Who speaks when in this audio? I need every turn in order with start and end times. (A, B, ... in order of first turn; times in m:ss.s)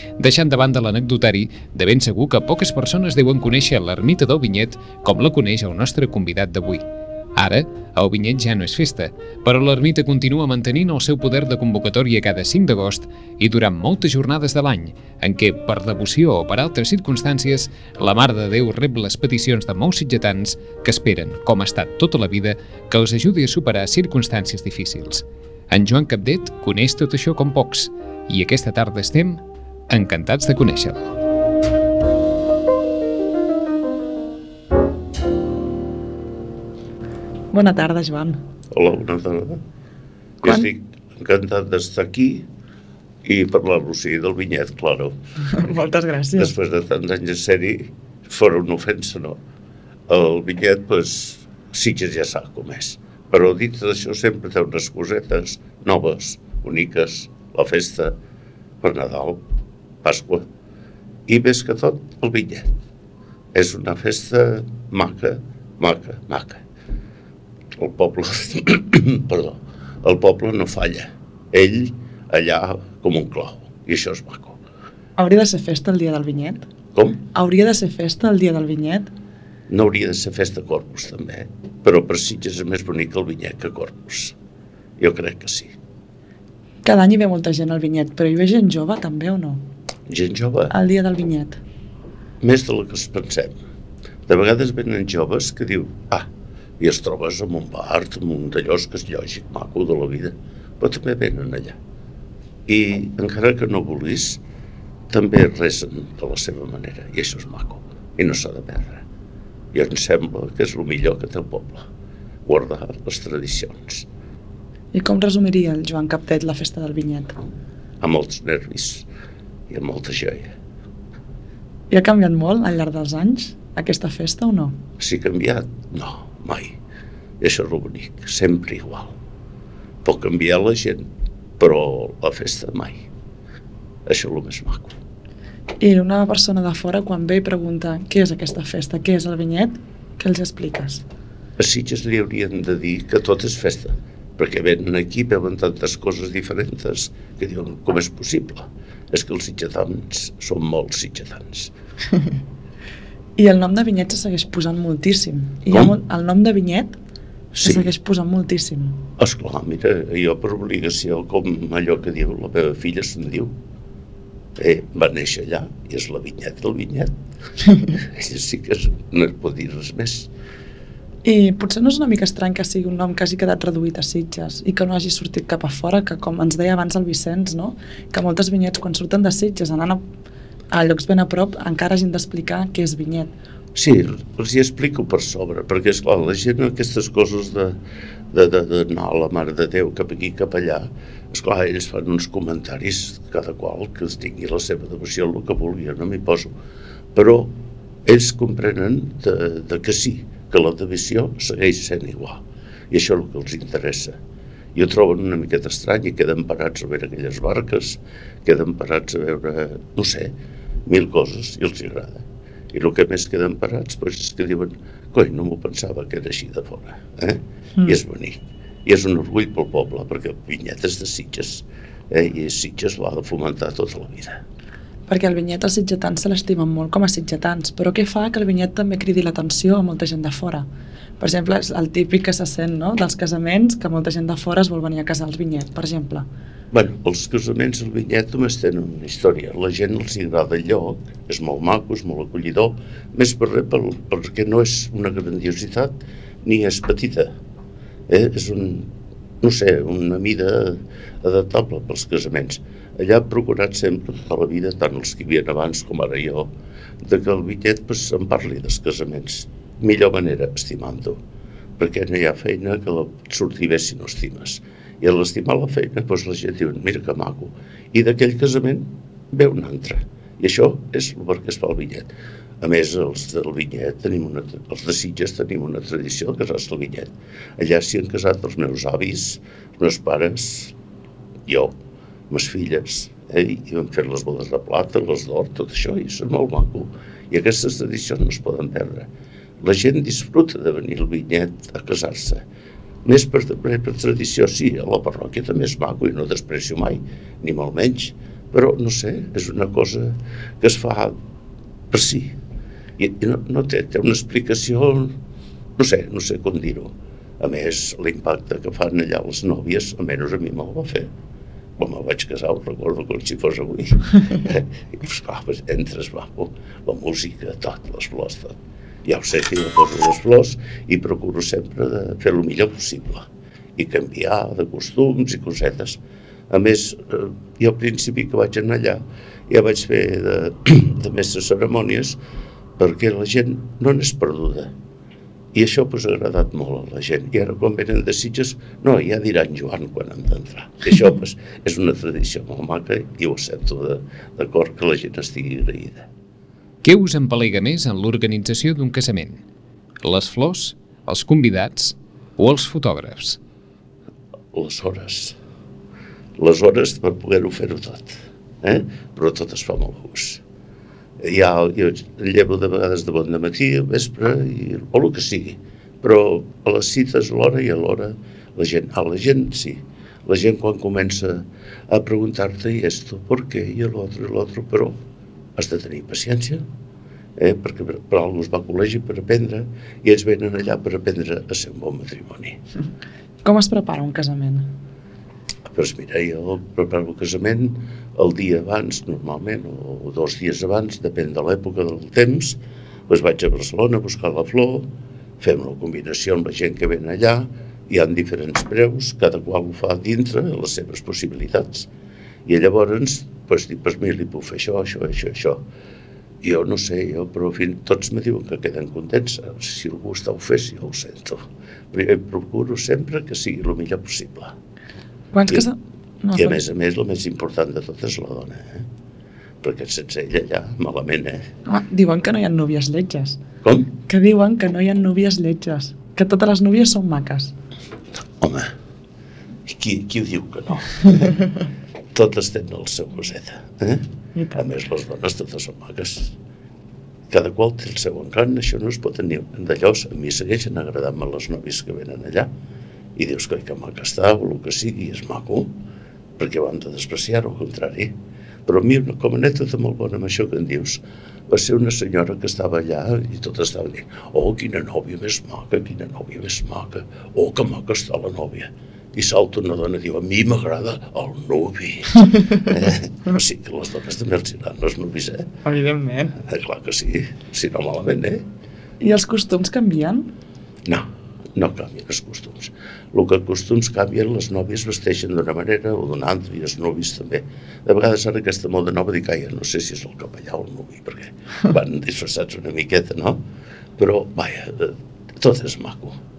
0:00.2-0:06.8 A
0:07.4-0:31.0 A
0:37.5-0:38.4 B
0:38.7-0:39.6 C
0:40.4-0:42.5 C
0:43.2-0:45.2 C
0:45.5-0:46.5 B
0:46.4-0:49.4 C
0:50.1-0:58.2 C
0:58.8-0:59.4 C
1:00.0-1:00.5 C
1:01.3-1:02.7 C
1:03.5-1:06.6 C
1:07.7-1:14.6 C
1:15.2-1:16.6 B
1:17.0-1:17.2 C
1:17.3-1:19.1 B
1:19.7-1:24.4 C
1:25.0-1:25.7 C
1:26.8-1:29.6 B
1:30.1-1:30.7 C
1:30.7-1:31.6 B
1:32.4-1:33.6 C
1:34.3-1:36.3 C
1:36.8-1:41.8 C
1:42.7-1:44.4 C
1:45.1-1:49.0 C
1:49.7-1:51.8 C
1:52.4-1:54.1 C
1:54.9-1:57.4 B
1:58.0-1:59.1 C
1:59.7-2:00.5 C
2:01.9-2:04.8 B
2:05.0-2:06.8 C
2:07.4-2:09.2 C
2:10.0-2:11.1 C
2:11.6-2:13.1 C
2:14.1-2:15.0 C
2:15.8-2:21.0 B
2:21.6-2:31.7 C
2:33.4-2:37.0 B
2:37.5-2:39.0 B
2:37.6-2:37.9 C
2:39.2-2:43.6 C
2:44.6-2:47.1 C
2:47.8-2:50.3 C
2:51.2-3:00.0 B
3:00.7-3:03.3 B
3:03.8-3:07.8 C
3:08.3-3:16.5 C
3:17.1-3:17.5 C
3:18.1-3:24.2 C
3:24.8-3:30.3 C
3:30.9-3:44.4 C
3:45.1-3:50.7 B
3:51.2-3:56.3 B
3:56.7-4:07.3 C
4:08.1-4:16.5 C
4:17.0-4:21.2 C
4:21.8-4:40.7 C
4:41.5-4:41.8 C
4:42.3-4:49.1 C
4:49.6-4:52.4 C
4:53.0-5:01.2 C
5:01.9-5:02.4 C
5:03.0-5:05.2 C
5:05.8-5:11.1 C
5:11.8-5:32.2 C
5:32.8-5:34.7 C
5:35.5-5:46.1 C
5:46.8-5:49.4 A
5:50.0-5:53.4 A
5:54.5-5:55.4 C
5:56.4-6:00.4 C
6:01.2-6:15.0 C
6:15.6-6:16.6 C
6:17.4-6:22.6 C
6:23.4-6:24.7 B
6:25.7-6:34.9 C
6:35.4-6:41.9 C
6:42.5-6:45.6 C
6:46.4-6:54.6 C
6:55.3-6:56.6 B
6:56.4-6:58.9 C
6:59.6-7:01.5 C
7:01.7-7:03.4 B
7:03.6-7:03.9 C
7:04.1-7:07.5 B
7:08.4-7:08.7 C
7:09.7-7:11.4 C
7:12.1-7:16.3 C
7:14.4-7:14.6 B
7:17.3-7:22.5 C
7:23.2-7:25.7 C
7:26.4-7:28.1 C
7:28.7-7:45.5 C
7:45.6-7:46.4 B
7:46.4-7:48.4 C
7:49.0-7:50.3 B
7:50.8-8:03.4 C
8:04.0-8:06.2 C